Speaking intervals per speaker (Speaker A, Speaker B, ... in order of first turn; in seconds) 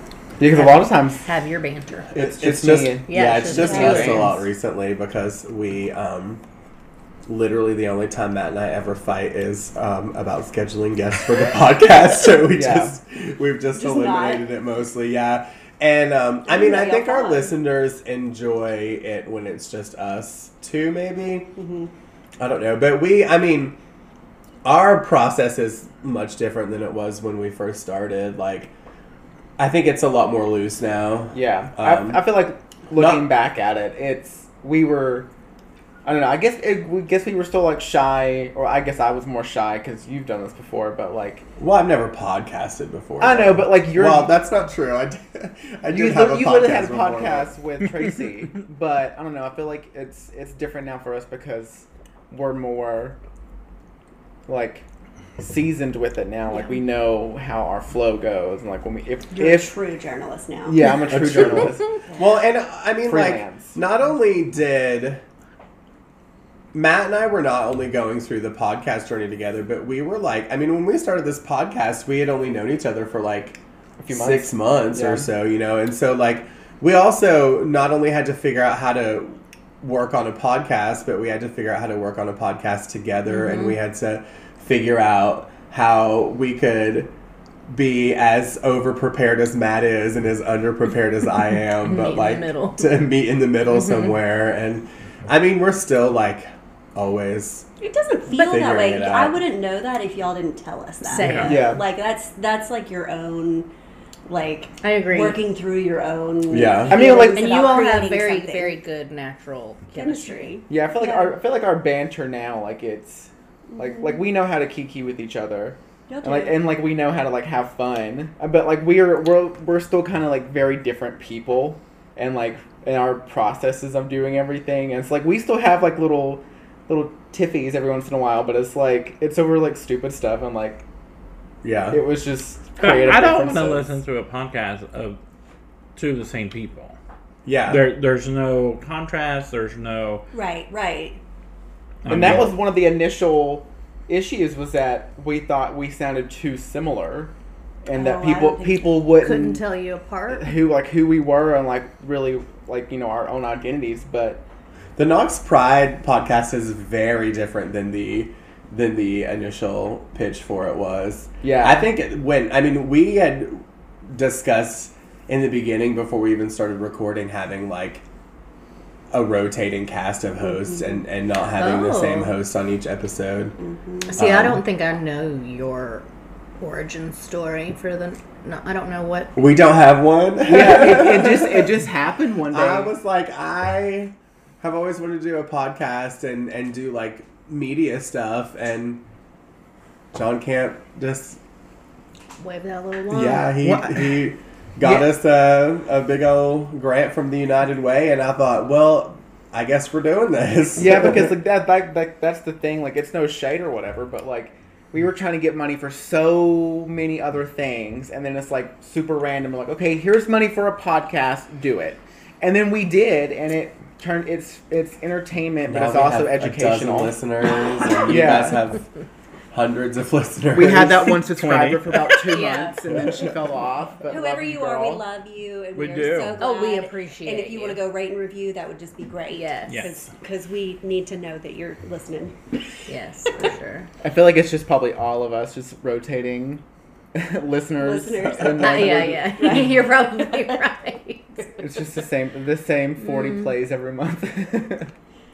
Speaker A: 0.4-1.2, 2.1-4.3, 12.5-12.9, 31.3-35.3, 36.0-41.5, 43.2-44.4, 45.9-53.1, 54.5-54.8, 55.4-59.8, 60.6-61.9, 63.0-63.8, 74.0-75.3, 101.4-101.8, 106.9-107.7, 110.7-130.8, 131.9-134.0, 142.1-147.3, 147.8-149.6, 150.3-154.4, 161.4-161.9, 180.4-183.0, 193.6-194.3, 194.8-195.1, 200.8-217.2, 218.0-218.6, 220.5-225.0, 234.0-236.6, 237.1-239.4, 241.6-244.9
Speaker B: 0.5-2.1, 3.1-4.4, 83.3-83.8, 91.8-93.0, 93.7-94.2, 98.3-98.7, 101.0-101.7, 104.8-105.4, 106.9-110.5, 149.2-150.5, 171.5-172.3, 174.1-176.1, 176.6-179.3, 192.4-193.5, 222.3-222.8, 226.4-227.8, 229.3-229.9, 232.9-233.9, 238.4-241.5, 243.0-243.6
Speaker C: 2.1-6.4, 7.3-21.5, 22.4-23.8, 24.6-28.7, 29.6-32.2, 32.9-33.3, 41.6-47.5, 61.1-65.2, 66.7-73.6, 74.1-87.1, 87.7-97.7, 98.3-99.4, 106.5-107.0, 131.6-132.0, 137.4-137.9, 155.0-168.0, 169.1-173.6, 174.2-174.6, 179.3-181.8, 182.5-189.0, 190.1-191.4, 193.1-201.3, 215.7-218.9, 219.5-221.2, 222.9-223.2
Speaker D: 3.7-4.0, 13.7-14.5, 16.4-17.6, 21.6-21.9, 59.3-60.9, 97.8-103.7, 104.3-108.8, 109.9-111.3, 113.7-114.2, 116.1-116.7, 140.3-141.2, 147.9-148.9, 170.6-171.0, 173.6-174.2, 224.1-232.3, 237.8-240.6
Speaker E: 101.2-101.5, 132.8-135.2, 135.9-137.0, 137.7-140.3, 142.0-142.5, 221.3-222.1, 225.7-226.4, 229.7-230.1